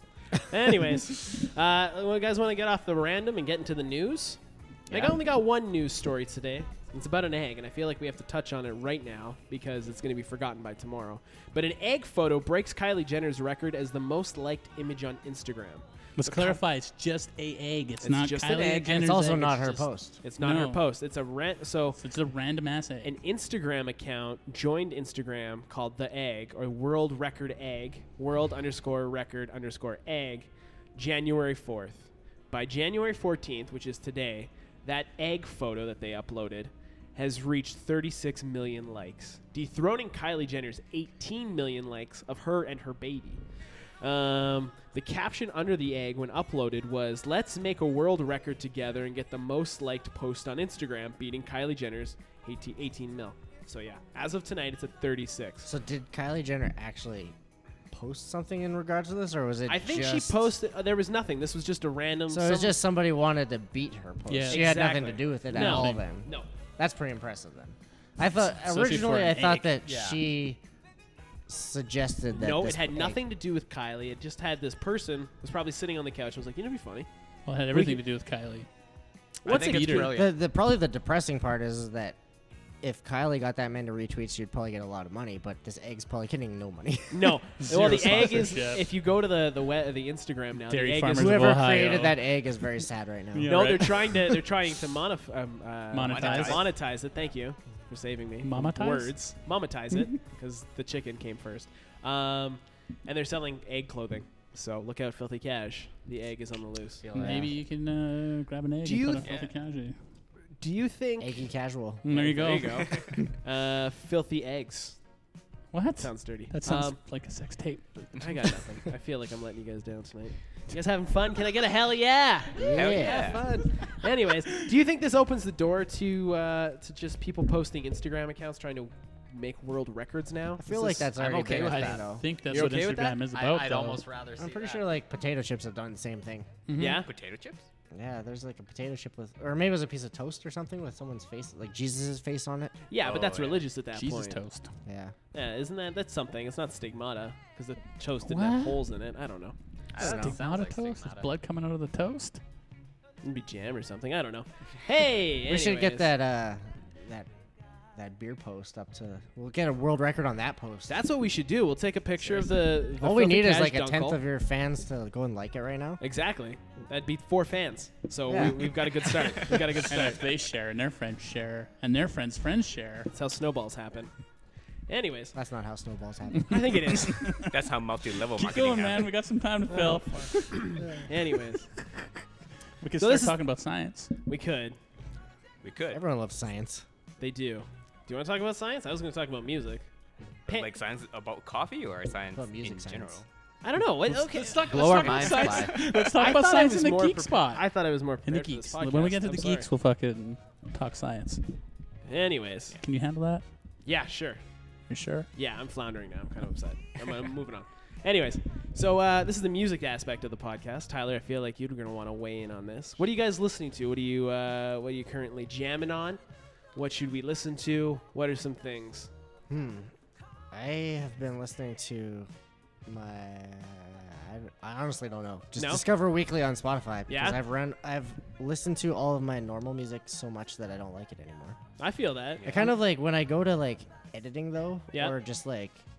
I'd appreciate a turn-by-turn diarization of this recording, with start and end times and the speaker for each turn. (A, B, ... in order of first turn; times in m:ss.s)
0:00.3-0:16.6 A
0:04.9-0:05.2 B
0:16.2-0:19.9 C
0:18.0-0:19.3 A
0:19.0-0:20.2 D
0:20.2-0:22.0 A
0:20.4-0:20.8 C
0:22.0-0:23.1 C
0:23.0-0:43.4 A
0:44.0-0:55.7 A
0:55.7-0:57.3 D
0:57.9-1:00.5 D
0:59.7-1:02.8 A
1:02.3-1:10.6 D
1:04.3-1:06.0 C
1:04.5-1:06.5 A
1:08.4-1:09.8 C
1:09.8-1:10.2 B
1:11.5-1:13.2 D
1:12.3-1:17.1 A
1:17.5-1:18.7 C
1:17.7-1:18.0 A
1:19.4-1:20.2 A
1:19.4-1:20.4 B
1:19.5-1:20.1 C
1:20.0-1:22.2 D
1:22.8-1:28.0 D
1:27.1-1:31.7 A
1:27.6-1:28.9 C
1:30.7-1:32.3 C
1:31.2-1:33.6 D
1:33.3-1:34.4 C
1:33.5-1:47.1 A
1:35.9-1:36.7 C
1:36.1-1:36.7 E
1:38.4-1:39.2 C
1:47.0-1:47.5 D
1:47.1-1:50.0 C
1:48.8-1:49.4 A
1:49.2-1:49.5 E
1:50.6-1:51.4 A
1:51.2-1:52.0 D
1:52.0-1:53.0 C
1:52.1-1:55.0 A
1:52.8-1:53.1 E
1:55.7-1:58.6 C
1:56.0-1:57.0 A
1:58.1-2:11.0 A
2:02.6-2:03.4 D
2:02.7-2:03.4 E
2:10.6-2:12.3 D
2:11.0-2:12.2 B
2:11.5-2:14.0 C
2:12.4-2:13.2 A
2:13.3-2:15.0 B
2:14.4-2:16.5 D
2:16.7-2:17.1 C
2:16.8-2:17.1 A
2:17.0-2:17.7 E
2:17.9-2:22.8 D
2:22.9-2:24.4 A
2:23.0-2:23.6 E
2:23.9-2:24.7 C
2:24.9-2:25.1 D
2:25.3-2:29.6 A
2:28.3-2:28.8 C
2:29.9-2:31.3 B
2:30.0-2:30.4 D
2:30.0-2:32.4 C
2:33.2-2:36.1 A
2:35.4-2:37.3 D
2:38.0-2:41.0 D
2:40.9-2:44.2 A
2:42.3-2:46.0 D
2:46.0-2:50.2 A
2:48.3-2:49.0 D
2:49.9-2:53.1 C
2:53.1-2:54.1 A
2:54.9-2:55.4 A
2:55.4-2:56.8 D
2:56.5-2:57.3 A
2:57.0-2:57.5 C
2:57.5-2:59.1 E
2:58.4-3:00.7 C
3:00.3-3:01.7 A
3:02.8-3:04.1 C
3:03.0-3:03.4 A
3:04.3-3:04.8 A
3:05.6-3:06.0 E
3:05.9-3:06.8 D
3:07.2-3:09.9 A
3:10.5-3:13.3 E
3:12.4-3:13.2 D
3:13.6-3:19.7 A
3:14.3-3:17.7 C
3:14.5-3:15.9 B
3:15.5-3:16.0 E
3:18.2-3:21.4 C
3:22.1-3:22.8 A
3:22.8-3:23.4 C
3:23.8-3:24.4 A
3:24.9-3:25.3 C
3:25.3-3:36.2 A
3:36.8-3:39.1 A
3:39.5-3:39.9 D
3:40.5-3:42.3 D
3:42.9-3:51.6 D
3:45.6-3:45.9 A
3:47.1-3:47.4 A
3:51.8-3:52.8 A
3:52.4-3:52.7 E
3:52.4-3:55.8 D
3:54.9-3:55.2 A